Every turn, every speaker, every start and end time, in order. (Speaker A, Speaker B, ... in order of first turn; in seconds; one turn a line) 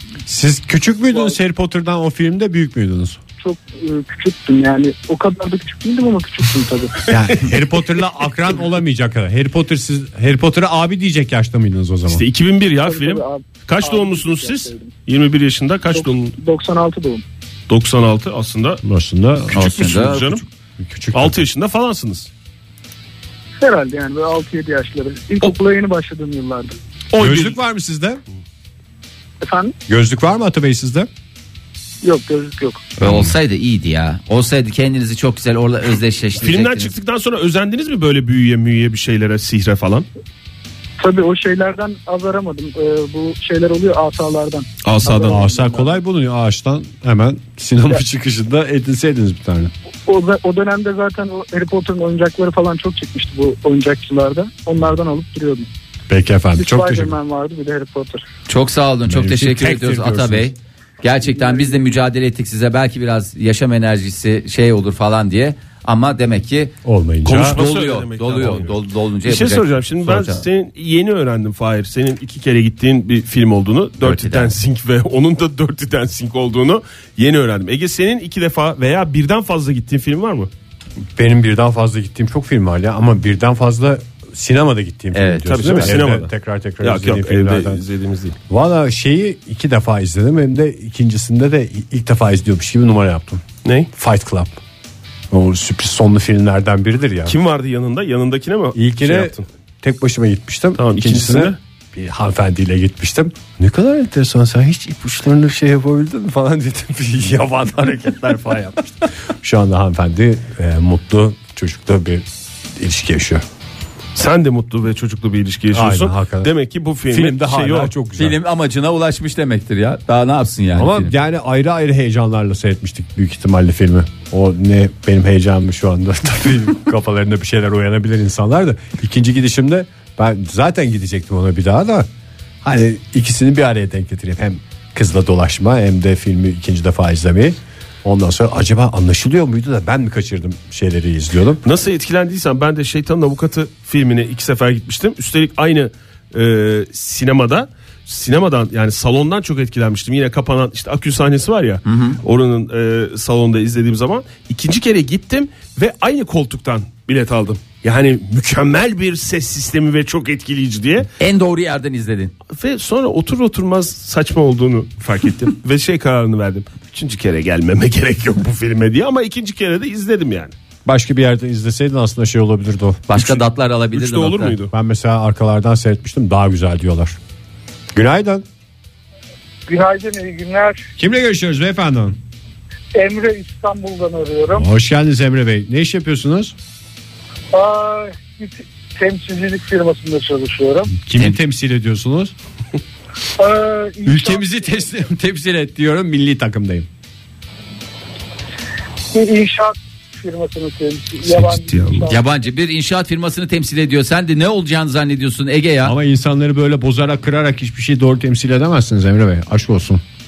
Speaker A: 0.2-3.2
Speaker B: 3.4-7.1
Speaker A: 7.1-12.2
Speaker C: 12.1-16.4
Speaker B: 12.8-14.9
Speaker B: 15.9-17.2
Speaker C: 17.7-18.8
Speaker A: 18.8-19.6
Speaker C: 19.5-20.4
Speaker D: 19.5-20.5
Speaker A: 20.8-21.4
Speaker C: 21.1-22.3
Speaker B: 23.6-26.7
Speaker C: 27.1-27.6
Speaker A: 27.2-28.2
Speaker B: 29.4-29.8
Speaker A: 29.9-31.1
Speaker B: 32.0-32.9
Speaker D: 33.0-36.9
Speaker A: 33.0-33.3
Speaker C: 36.4-40.1
Speaker B: 41.0-46.0
Speaker C: 44.8-45.4
Speaker A: 45.1-49.7
Speaker B: 50.1-55.7
Speaker A: 56.1-57.2
Speaker B: 56.5-58.2
Speaker D: 58.5-66.7
Speaker A: 59.0-60.5
Speaker B: 61.4-61.8
Speaker A: 66.8-67.6
Speaker C: 67.2-80.5
Speaker D: 67.4-70.5
Speaker D: 74.0-74.5
Speaker A: 81.2-87.8
Speaker D: 85.1-86.0
Speaker C: 85.5-86.3
Speaker C: 86.8-88.4
Speaker A: 88.5-94.6
Speaker C: 93.6-93.9
Speaker A: 95.3-97.4
Speaker C: 97.2-99.4
Speaker A: 98.7-113.4
Speaker C: 100.8-101.6
Speaker C: 114.1-117.9
Speaker A: 115.7-116.5
Speaker A: 117.1-118.4
Speaker D: 118.2-121.1
Speaker A: 120.8-132.1
Speaker A: 132.6-141.6
Speaker C: 141.6-161.1
Speaker D: 151.9-152.2
Speaker D: 161.2-162.3
Speaker C: 162.5-170.5
Speaker A: 170.8-173.2
Speaker D: 173.1-174.6
Speaker C: 173.9-174.7
Speaker A: 174.7-177.2
Speaker A: 177.9-178.4
Speaker B: 179.7-180.9
Speaker A: 181.0-182.2
Speaker B: 182.9-184.7
Speaker A: 184.5-186.5
Speaker B: 187.5-190.9
Speaker A: 191.0-192.3
Speaker B: 193.4-194.9
Speaker A: 194.1-196.9
Speaker B: 199.1-202.2
Speaker C: 201.2-202.1
Speaker D: 202.1-205.9
Speaker A: 205.8-210.0